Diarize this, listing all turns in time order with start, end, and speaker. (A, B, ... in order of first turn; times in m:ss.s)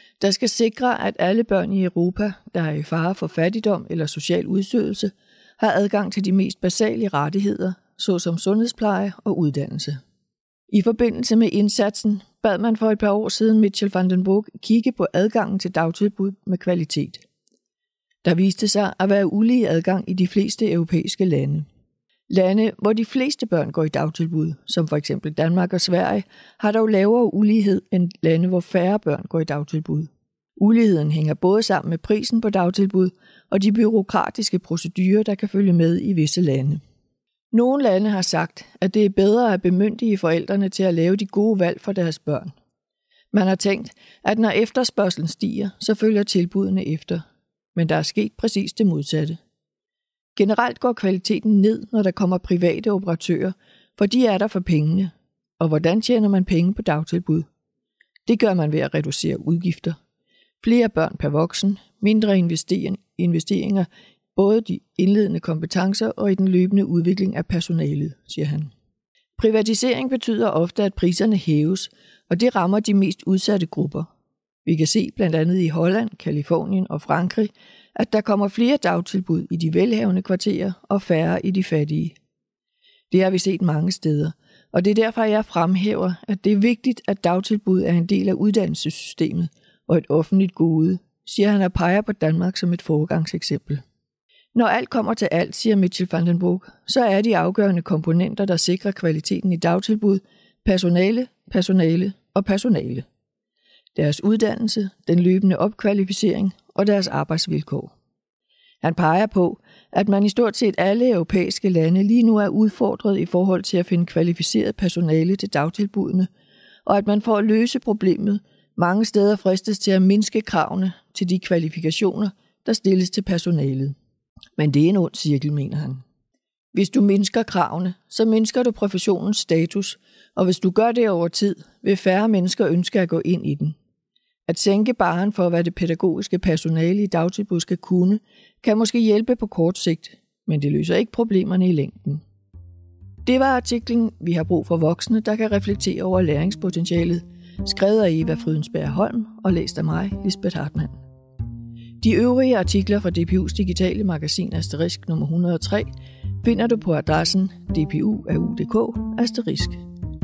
0:00.2-0:10.0 A
0:10.7-0:17.2 A
0:18.2-0:21.7 A
0:22.3-0:36.8 A
0:37.5-0:42.5 A
0:43.3-0:47.2 A
0:47.7-0:49.4 A
0:50.4-0:57.4 A
0:58.3-1:00.0 A
1:00.6-1:08.7 A
1:09.4-1:14.1 A
1:14.6-1:22.2 A
1:23.1-1:33.8 A
1:34.5-1:43.0 A
1:43.9-1:47.9 A
1:48.8-1:56.3 A
1:56.8-2:03.9 A
2:04.6-2:06.0 A
2:06.7-2:13.8 A
2:14.5-2:22.2 A
2:23.2-2:30.9 A
2:32.0-2:35.9 A
2:36.4-2:39.8 A